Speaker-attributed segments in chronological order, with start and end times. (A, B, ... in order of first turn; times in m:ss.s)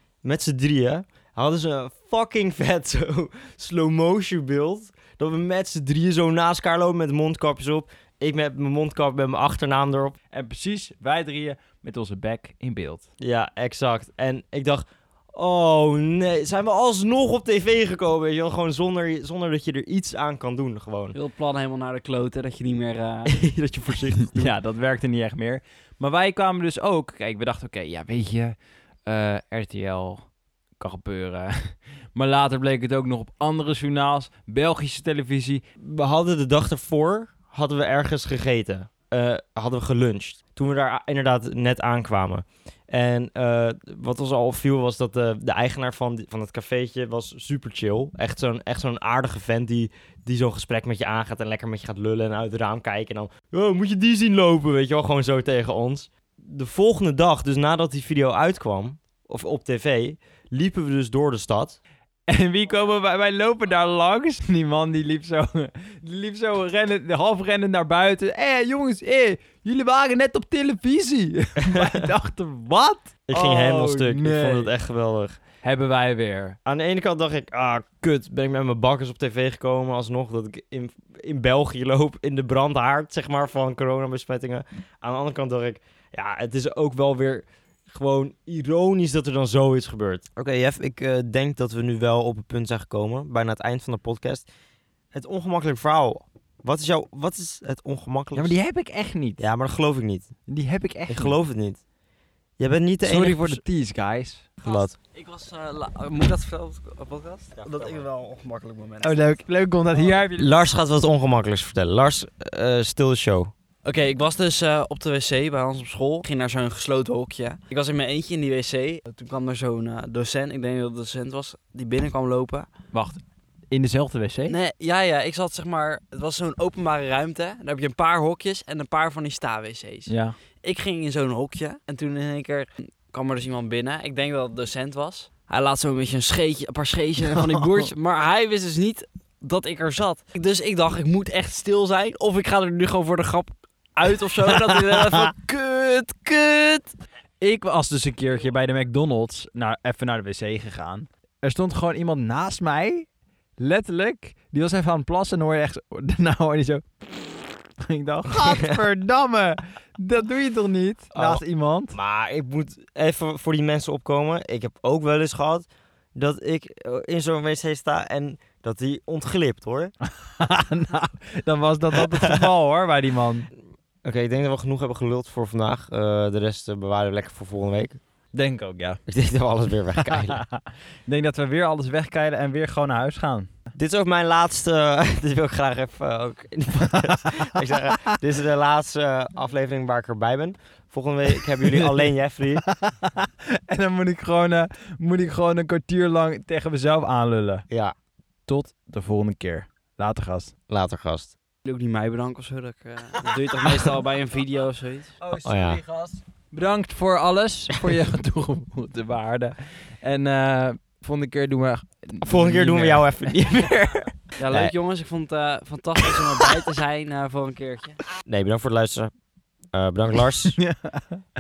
0:00.2-0:10.2 A
0:10.3-0:13.0 B
0:13.2-0:21.2 A
0:21.1-0:23.4 C
0:23.3-0:24.5 A
0:24.3-0:28.6 B
0:29.1-0:30.2 B
0:30.8-0:35.6 B
0:35.8-1:01.8 A
1:02.3-1:14.7 B
1:11.7-1:12.1 A
1:13.3-1:15.4 A
1:15.6-1:16.6 B
1:16.6-1:34.5 A
1:35.1-1:38.6 A
1:38.3-1:39.4 B
1:39.4-1:40.3 A
1:40.5-1:41.4 B
1:41.1-1:41.8 A
1:42.6-1:43.6 A
1:43.0-1:44.4 B
1:44.6-1:44.9 A
1:44.6-1:49.4 C
1:47.6-1:48.0 A
1:49.0-1:50.5 B
1:50.3-1:53.5 A
1:53.8-2:02.7 C
2:02.9-2:04.6 B
2:04.5-2:26.9 C
2:10.1-2:10.4 B
2:17.4-2:17.8 B
2:24.2-2:25.3 B
2:27.4-2:42.0 B
2:38.3-2:38.8 A
2:41.1-2:49.9 A
2:50.2-2:53.5 B
2:52.0-2:52.5 A
2:54.0-2:58.0 A
2:58.3-2:59.0 B
2:59.1-3:00.4 A
3:00.1-3:03.5 B
3:03.8-3:12.6 A
3:11.6-3:11.9 B
3:12.6-3:17.7 B
3:18.5-3:20.5 B
3:20.7-3:21.3 A
3:21.6-3:25.1 C
3:25.2-3:33.4 B
3:25.4-3:25.8 A
3:32.2-3:34.7 A
3:34.4-3:38.0 C
3:38.2-3:39.1 A
3:39.7-3:40.6 A
3:40.6-3:41.2 B